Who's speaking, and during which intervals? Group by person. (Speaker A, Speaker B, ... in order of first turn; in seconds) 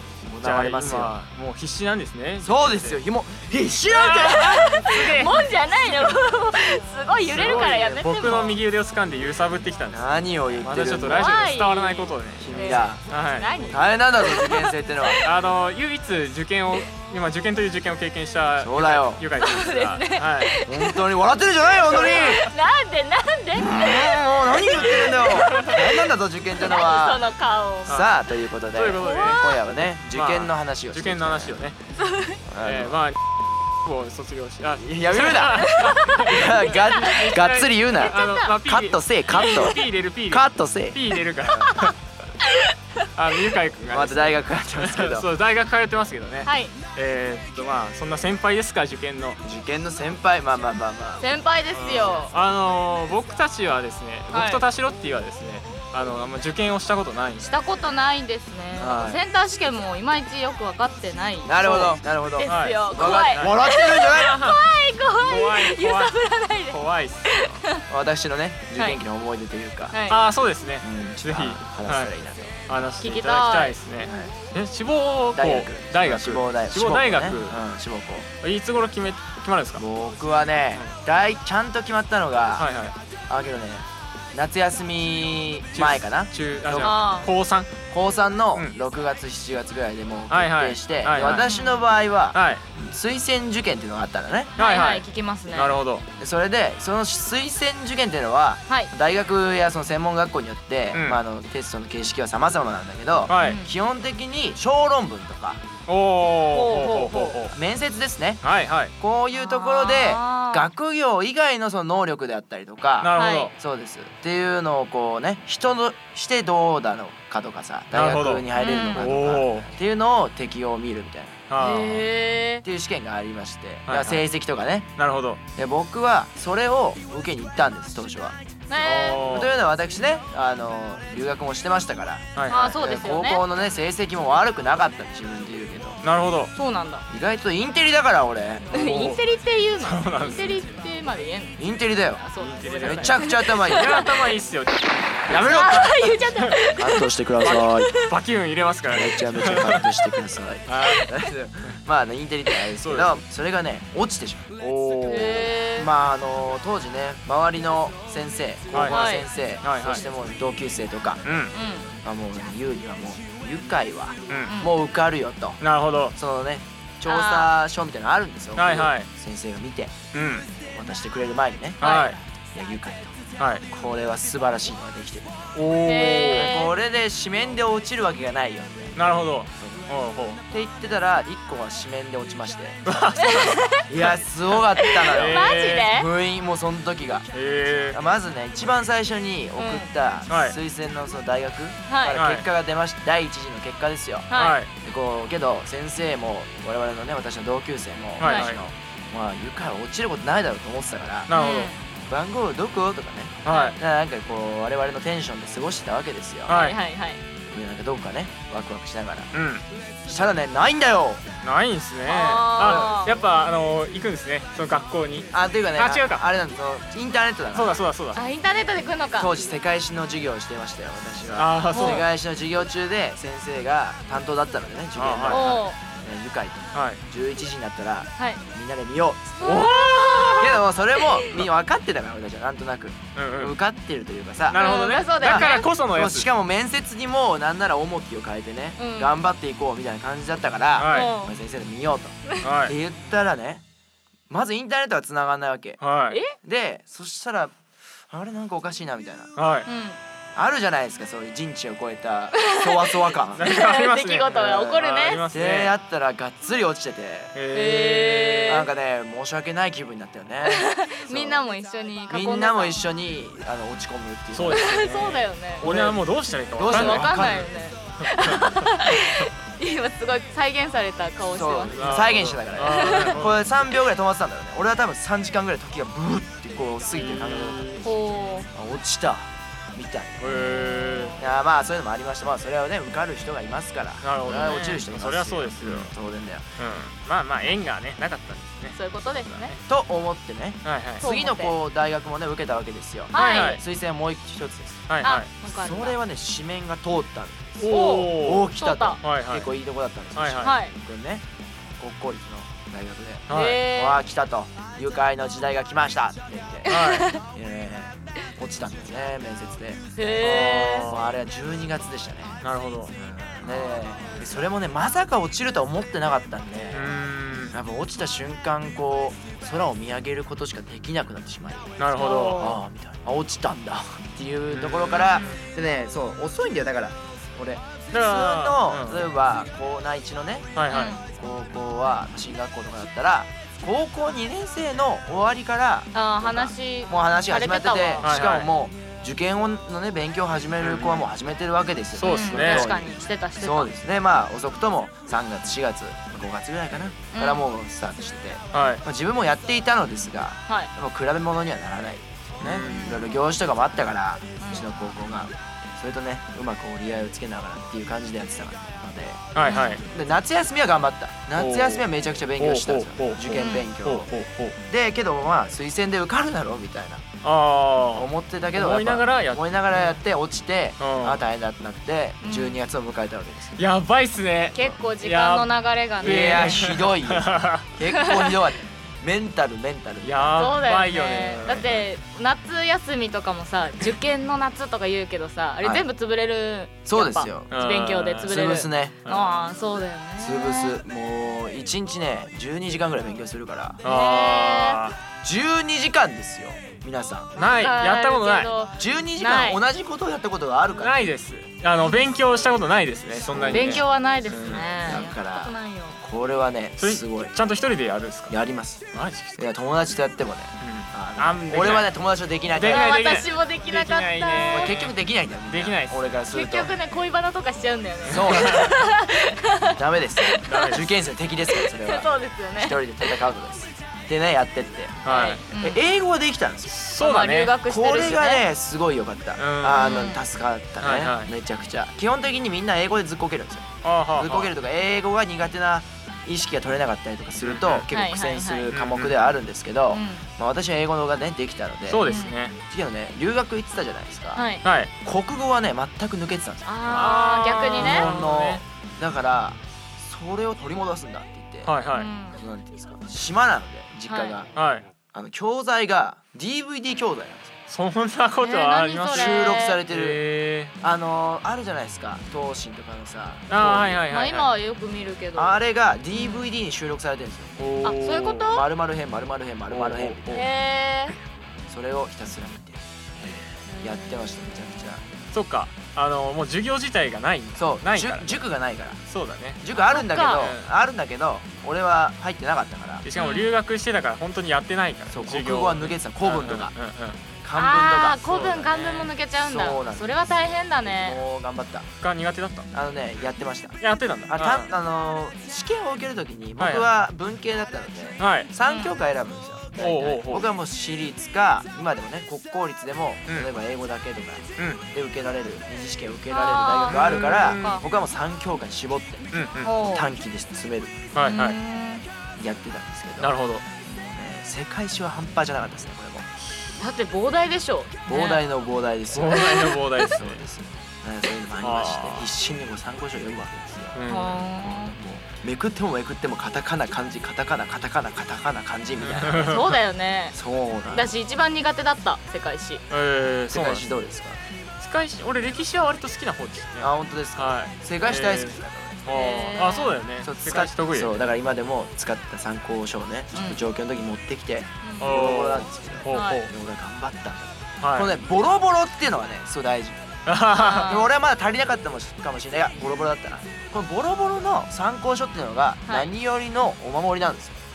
Speaker A: 0.2-1.2, 2.4-5.2, 7.3-8.4, 9.9-11.3, 12.4-13.0, 13.6-15.2, 18.6-19.2, 20.6-22.5, 23.5-27.3, 27.9-31.7, 32.5-33.0, 34.8-41.5, 43.9-45.3, 49.4-51.2, 58.8-59.2, 61.5-64.4, 67.9-70.0, 70.8-72.5, 74.0-74.3, 75.3-78.3, 79.8-82.7, 83.3-87.0, 87.9-94.5, 96.2-105.6, 107.5-108.4, 109.0-121.4, 122.6-124.9, 125.6-136.0, 137.1-138.8, 141.6-142.2, 142.8-144.0, 145.3-146.2, 146.8-147.9, 148.9-154.5, 155.8-161.2, 162.0-165.6, 166.1-169.9, 170.7-171.8, 172.5-173.2, 173.7-175.5, 176.0-179.0, 179.6-179.9, 180.5-182.8, 183.9-187.3, 187.9-194.3, 194.8-201.3, 202.0-206.6, 207.5-209.3, 210.1-211.2, 212.6-212.9, 215.3-217.9, 219.2-229.5, 230.4-243.6, 244.3-245.8, 246.4-247.5, 248.1-249.3, 250.3-253.5, 254.3-254.7, 255.3-257.3, 258.5-261.4, 262.1-264.7, 265.6-267.5, 271.3-277.9, 278.5-280.4, 281.2-286.5, 289.7-301.2, 301.8-312.4, 312.9-317.0, 317.5-321.8, 322.4-330.5, 331.0-359.2, 359.9-364.1, 364.6-367.0, 367.9-373.6, 376.0-380.6, 386.9-387.6, 388.3-389.0, 390.2-393.8, 395.2-397.3, 398.8-401.0, 403.1-403.9, 404.8-407.3, 408.3-408.9, 409.4-412.9, 414.4-416.7, 418.1-418.8, 419.7-425.0, 425.6-426.8, 427.6-442.1, 442.7-444.4, 445.0-446.7, 447.8-451.7, 452.3-454.5, 455.1-457.5, 459.1-460.2, 460.8-464.0, 465.4-467.7, 468.5-470.5, 471.7-472.8, 473.8-475.0, 477.6-479.0, 479.6-483.1, 485.1-486.7, 487.4-488.5, 489.4-491.9, 492.7-509.3, 509.8-511.1, 512.4-516.3, 518.1-524.0, 524.6-529.7, 530.3-531.1, 533.5-534.4, 536.8-539.0, 540.2-550.1, 550.9-557.6
Speaker B: 0.4-3.0, 3.9-5.5, 7.3-13.8, 15.2-20.6, 21.9-22.5, 24.8-25.8, 27.9-28.1, 28.7-31.8, 32.6-33.2, 33.7-42.0, 43.1-49.4, 51.7-57.5, 61.6-62.0, 62.5-64.6, 65.2-66.2, 66.7-67.6, 70.1-72.1, 72.7-77.6, 78.4-79.8, 82.6-83.0, 85.7-87.7, 90.3-91.5, 92.3-92.6, 94.6-96.1, 100.9-101.2, 103.3-103.6, 105.9-107.5, 108.4-108.9, 113.0-113.5, 117.9-119.7, 121.5-122.1, 123.9-124.2, 125.0-125.4, 129.0-129.6, 132.4-132.8, 136.0-136.5, 138.7-139.2, 139.8-140.7, 142.4-144.8, 147.4-149.9, 150.7-151.1, 152.8-153.2, 154.6-155.5, 158.7-159.0, 159.6-160.1, 161.2-161.6, 164.3-164.6, 165.6-166.2, 168.6-169.1, 170.1-170.5, 171.8-172.2, 173.4-173.7, 175.6-176.5, 178.9-180.4, 182.9-184.1, 184.9-185.9, 187.3-188.0, 190.3-190.6, 192.1-192.5, 194.3-194.7, 198.2-198.6, 201.3-201.7, 203.4-203.8, 206.5-206.8, 209.3-209.6, 211.4-216.2, 217.5-218.2, 221.3-222.1, 225.0-225.6, 226.7-227.0, 229.4-230.6, 233.2-233.6, 234.5-236.3, 240.8-241.2, 242.4-242.8, 245.8-246.2, 249.4-249.7, 253.4-255.8, 257.3-258.7, 264.3-269.3, 271.7-273.5, 276.9-277.9, 280.2-281.2, 284.0-285.9, 286.6-289.6, 290.6-291.0, 293.1-293.6, 294.9-295.3, 297.6-299.5, 300.1-300.5, 303.3-303.6, 306.7-307.1, 310.2-311.1, 312.4-312.9, 316.7-317.6, 321.8-322.5, 324.5-325.4, 327.9-329.1, 330.6-330.9, 338.0-338.5, 340.6-341.1, 341.9-342.7, 348.5-348.8, 352.4-353.0, 359.3-359.8, 361.4-364.6, 367.2-370.0, 370.8-371.2, 373.6-377.7, 380.0-381.9, 387.5-389.6, 393.8-395.0, 397.4-398.5, 400.8-404.7, 406.8-408.4, 408.9-409.5, 410.6-411.9, 412.5-416.2, 418.1-418.7, 420.4-421.0, 425.0-425.4, 426.7-428.1, 429.4-430.0, 430.8-431.3, 433.8-434.5, 437.4-437.9, 438.7-439.1, 441.9-442.6, 444.6-444.9, 446.9-448.6, 451.6-452.1, 454.6-454.9, 457.7-460.7, 463.5-464.5, 467.6-468.5, 469.7-470.4, 475.3-478.4, 479.1-479.6, 480.3-480.7, 483.0-487.2, 488.3-489.1, 492.0-492.7, 493.8-494.7, 496.6-496.9, 498.2-498.5, 499.8-500.5, 506.9-507.8, 509.3-509.7, 511.1-511.6, 513.2-513.6, 519.1-520.4, 521.6-522.4, 523.9-524.5, 529.0-529.8, 532.9-533.9, 534.8-541.1, 545.0-546.5, 547.8-548.1, 550.3-551.0
Speaker C: 4.1-8.6, 11.1-15.2, 19.4-20.9, 21.8-25.8, 26.6-28.0, 29.0-29.6, 32.0-32.4, 35.2-37.2, 37.9-38.5, 39.4-39.8, 41.5-41.9, 42.4-42.8, 46.4-46.8, 51.2-52.3, 54.3-54.7, 57.4-67.8, 69.9-70.2, 73.0-73.8, 86.8-87.3, 91.4-91.8, 94.6-95.8, 103.3-103.7, 106.5-107.4, 109.3-110.7, 113.2-113.5, 118.6-119.1, 121.6-122.6, 128.7-129.2, 132.5-133.4, 136.6-137.1, 138.7-144.1, 145.4-147.1, 147.8-148.1, 150.8-151.1, 155.1-155.9, 158.9-159.3, 161.5-161.9, 164.5-164.7, 167.1-167.5, 171.8-172.1, 175.8-176.8, 183.2-183.8, 184.8-186.1, 189.6-189.9, 191.9-192.2, 194.3-194.6, 198.2-198.5, 201.3-201.8, 203.5-203.8, 206.5-207.2, 212.1-213.2, 218.1-219.4, 221.7-222.1, 225.3-225.8, 228.2-228.4, 229.4-231.2, 234.6-235.7, 238.8-239.2, 240.9-241.4, 249.7-250.0, 252.5-252.8, 253.4-255.3, 257.5-258.7, 260.5-262.8, 264.5-265.7, 266.6-273.2, 277.8-278.5, 280.3-281.2, 284.3-284.5, 288.7-289.5, 291.0-291.6, 293.1-293.6, 295.0-296.0, 297.7-299.0, 300.4-300.8, 303.3-304.0, 306.7-307.2, 309.9-311.0, 313.4-314.2, 322.0-322.6, 325.0-325.4, 330.7-331.0, 335.9-338.4, 342.0-343.7, 347.1-347.5, 352.7-353.1, 354.4-354.7, 359.4-359.8, 363.3-363.7, 372.2-372.6, 374.5-376.7, 377.9-378.3, 380.4-390.8, 393.8-394.8, 397.4-399.6, 403.4-406.0, 412.6-414.8, 416.3-420.7, 421.5-423.2, 425.1-425.8, 427.0-428.4, 429.8-430.2, 437.9-438.7, 439.9-440.2, 442.1-442.4, 444.3-444.6, 446.6-448.1, 451.9-452.4, 454.1-454.4, 458.4-459.8, 464.1-466.4, 467.8-468.6, 470.3-471.2, 473.7-474.2, 479.8-480.5, 483.2-483.5, 487.6-491.2, 498.7-498.9, 506.3-507.8, 509.6-510.1, 511.3-512.1, 516.8-518.4, 519.4-520.1, 524.1-525.0, 529.4-530.4, 530.9-532.8, 539.1-540.0, 543.3-543.6, 544.8-545.1, 546.1-546.5, 550.5-551.1